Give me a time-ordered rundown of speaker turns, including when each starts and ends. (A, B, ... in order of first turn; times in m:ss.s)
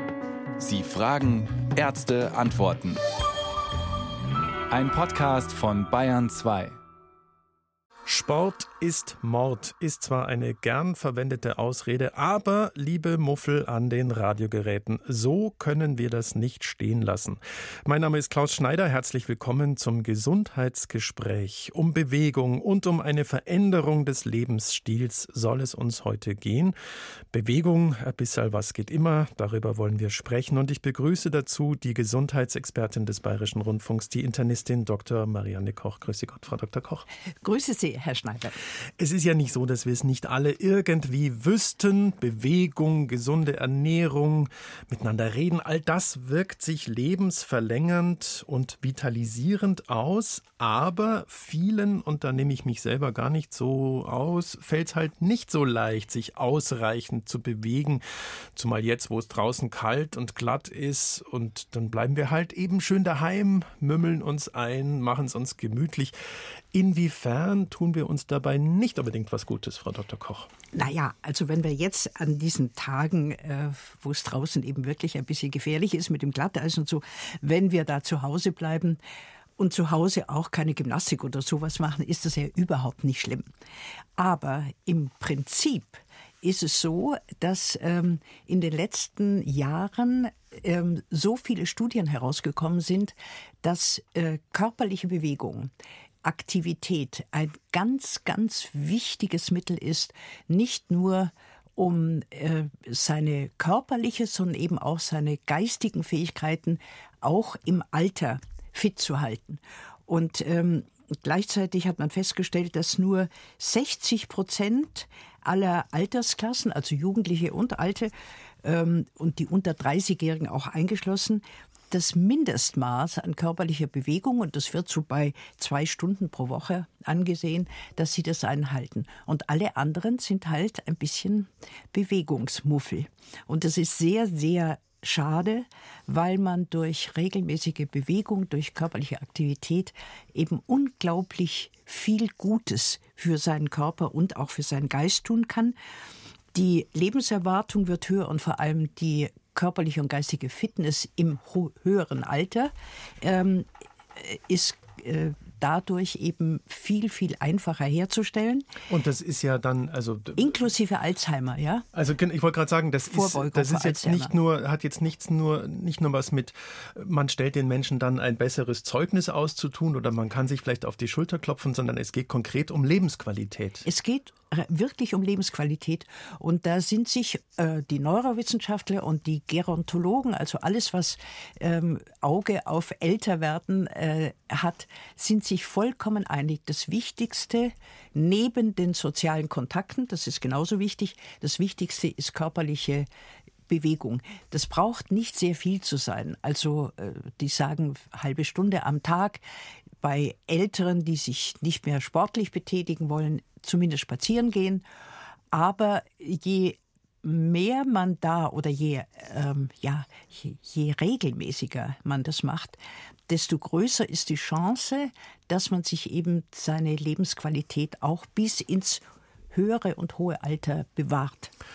0:00.6-0:03.0 A
0:04.7-0:06.8 A
0:08.1-0:26.8 B
0:27.3-0:37.0 B
0:37.4-0:38.6 C
0:39.0-0:58.0 B
0:58.6-1:06.1 B
1:06.7-1:10.5 B
1:10.7-1:19.0 C
1:19.6-1:23.5 C
1:24.2-1:35.7 C
1:36.2-2:25.8 C
2:26.5-2:38.7 C
2:38.9-2:40.6 B
2:40.4-2:41.9 C
2:41.9-2:53.8 B
2:43.1-2:44.3 C
2:53.8-3:13.1 C
3:13.7-3:19.4 C
3:20.0-3:24.8 C
3:25.5-3:41.5 C